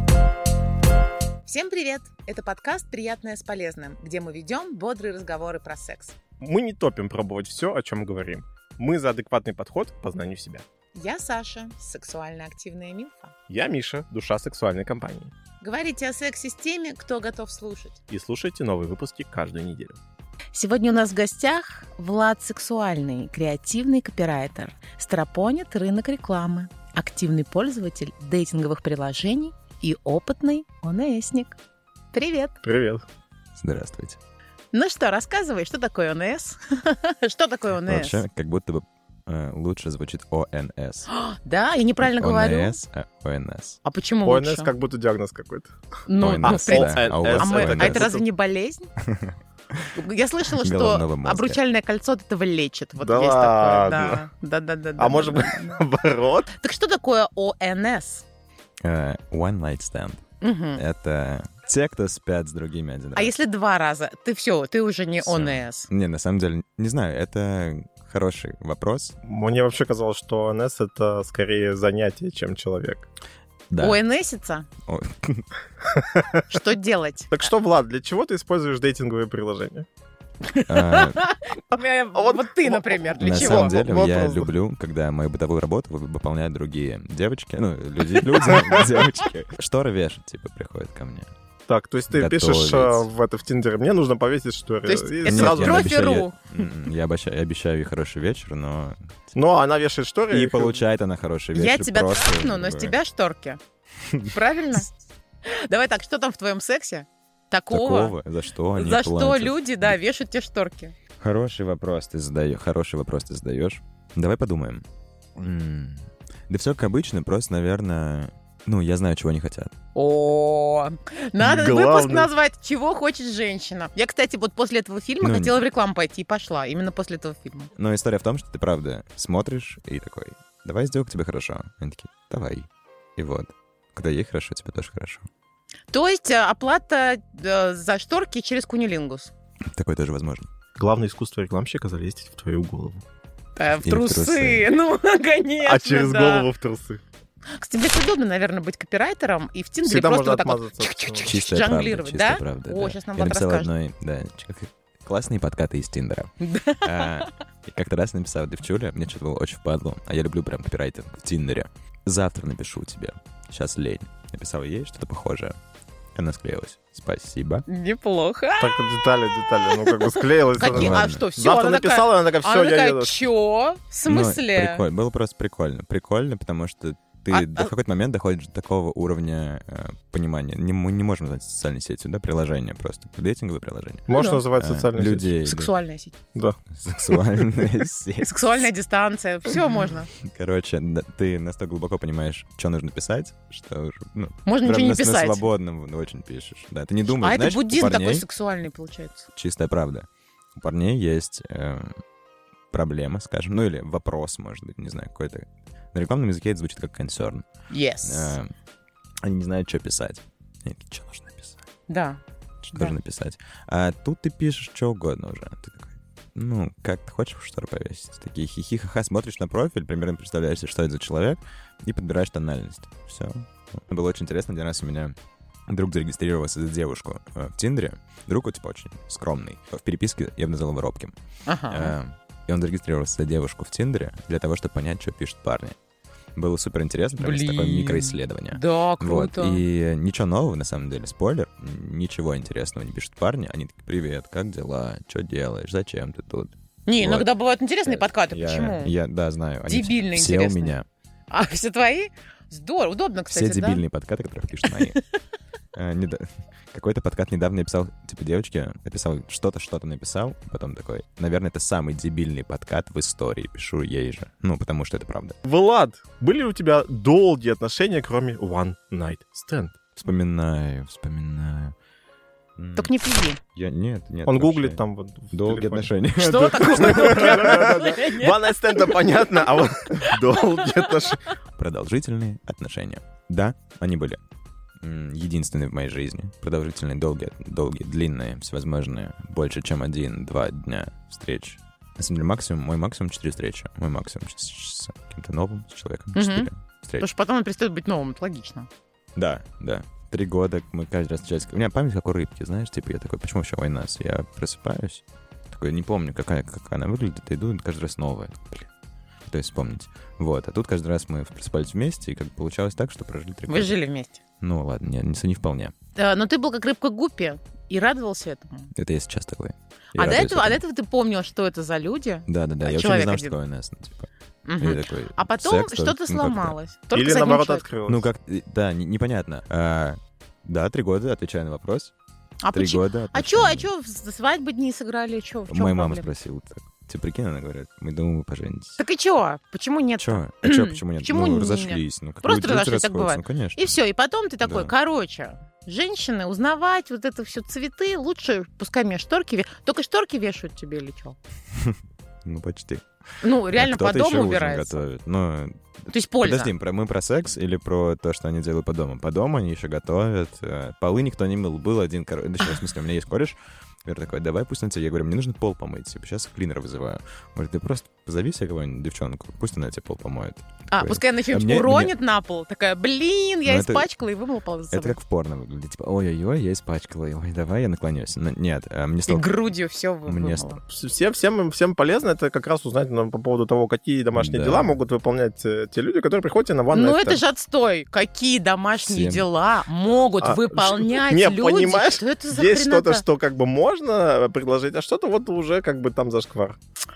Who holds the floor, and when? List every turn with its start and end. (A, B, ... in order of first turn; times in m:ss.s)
0:01.4-0:06.1 A
0:06.4-0:10.6 B
0:10.9-0:13.3 A
0:13.5-0:15.3 B
0:15.6-0:18.0 A
0:18.1-0:20.0 B
0:20.5-0:31.6 A
0:32.1-0:32.5 A
0:32.6-0:33.0 B
0:33.6-0:34.2 C
0:34.7-0:38.2 A
0:37.8-0:41.1 C
0:41.1-0:42.8 A
0:42.0-0:43.8 C
0:43.8-0:44.7 A
0:44.2-0:45.7 B
0:46.1-0:48.9 A
0:46.2-0:48.1 C
0:46.4-0:48.2 B
0:49.0-0:50.0 C
0:49.9-0:55.8 A
0:50.6-0:51.6 C
0:53.0-0:54.2 B
0:55.0-0:56.5 B
0:56.5-0:58.2 A
0:58.8-1:00.2 C
1:00.4-1:00.8 A
1:00.8-1:03.3 C
1:03.2-1:05.9 A
1:05.2-1:09.1 C
1:09.2-1:13.0 B
1:13.7-1:14.0 C
1:13.8-1:14.7 A
1:14.8-1:15.5 C
1:15.8-1:16.6 B
1:16.5-1:17.4 A
1:17.3-1:19.9 B
1:20.4-1:23.8 A
1:20.6-1:21.2 C
1:22.1-1:24.5 B
1:23.2-1:31.3 C
1:31.7-1:35.9 B
1:32.1-1:33.1 C
1:34.9-1:36.5 A
1:35.2-1:39.3 C
1:39.3-1:40.8 B
1:40.3-1:43.0 C
1:41.5-1:43.6 A
1:44.0-1:44.3 C
1:44.2-1:44.9 A
1:45.4-1:48.2 A
1:47.7-1:50.0 C
1:48.8-1:50.9 A
1:51.2-1:59.7 C
1:59.9-2:07.7 A
2:01.4-2:02.3 B
2:05.2-2:05.6 C
2:07.8-2:15.3 C
2:15.9-2:19.3 A
2:19.7-2:20.5 C
2:20.8-2:23.0 B
2:23.6-2:26.5 A
2:23.8-2:24.7 C
2:25.6-2:27.0 B
2:27.5-2:33.7 A
2:29.8-2:31.4 B
2:31.2-2:45.6 C
2:36.4-2:37.2 A
2:46.1-2:47.6 C
2:47.7-2:54.8 A
2:48.6-2:53.2 B
2:50.6-2:51.2 C
2:54.0-3:05.7 C
2:57.3-2:57.7 A
3:04.1-3:05.3 B
3:04.1-3:04.4 A
3:05.4-3:06.1 A
3:06.7-3:08.4 C
3:08.2-3:10.1 A
3:10.2-3:18.2 C
3:14.4-3:15.4 A
3:17.2-3:19.2 A
3:19.3-3:22.0 C
3:22.7-3:27.4 C
3:27.7-3:28.4 A
3:28.0-3:28.5 C
3:29.2-3:31.6 C
3:31.9-3:32.2 A
3:32.6-3:45.2 C
3:45.7-3:51.1 C
3:51.5-3:51.9 A
3:51.7-3:55.8 C
3:56.4-4:07.3 C
3:57.2-3:59.6 A
4:06.9-4:08.9 A
4:07.8-4:10.8 C
4:09.7-4:10.7 A
4:11.3-4:13.8 A
4:13.3-4:15.0 C
4:14.6-4:15.0 A
4:15.7-4:25.4 C
4:25.4-4:29.7 B
4:30.0-4:31.7 C
4:32.6-4:32.9 C
4:32.8-4:33.4 A
4:33.5-4:38.0 C
4:34.2-4:35.9 B
4:36.2-4:38.8 A
4:36.7-4:41.2 B
4:40.0-4:40.7 A
4:41.6-4:44.2 C
4:44.8-4:57.1 C
4:56.1-4:56.5 A
4:57.0-4:58.7 A
4:59.2-5:08.7 C
5:09.2-5:13.8 C
5:13.5-5:14.2 A
5:14.4-5:15.7 C
5:15.9-5:18.7 A
5:18.7-5:20.6 C
5:19.9-5:23.3 A
5:22.3-5:26.6 C
5:24.4-5:27.6 A
5:26.9-5:28.1 B
5:27.8-5:31.9 C
5:32.4-5:36.1 A
5:32.5-5:33.7 C
5:35.5-5:38.8 C
5:38.8-5:51.2 A
5:40.0-5:43.7 C
5:44.4-5:44.7 C
5:51.5-5:52.8 C
5:53.2-5:54.8 A
5:53.5-6:11.9 C
5:55.9-5:56.5 A
6:10.7-6:15.0 A
6:13.4-6:13.9 C
6:14.7-6:19.3 C
6:19.1-6:20.6 A
6:20.1-6:20.5 C
6:20.7-6:27.2 B
6:24.1-6:24.7 C
6:26.7-6:33.0 A
6:28.8-6:29.2 C
6:30.2-6:36.6 B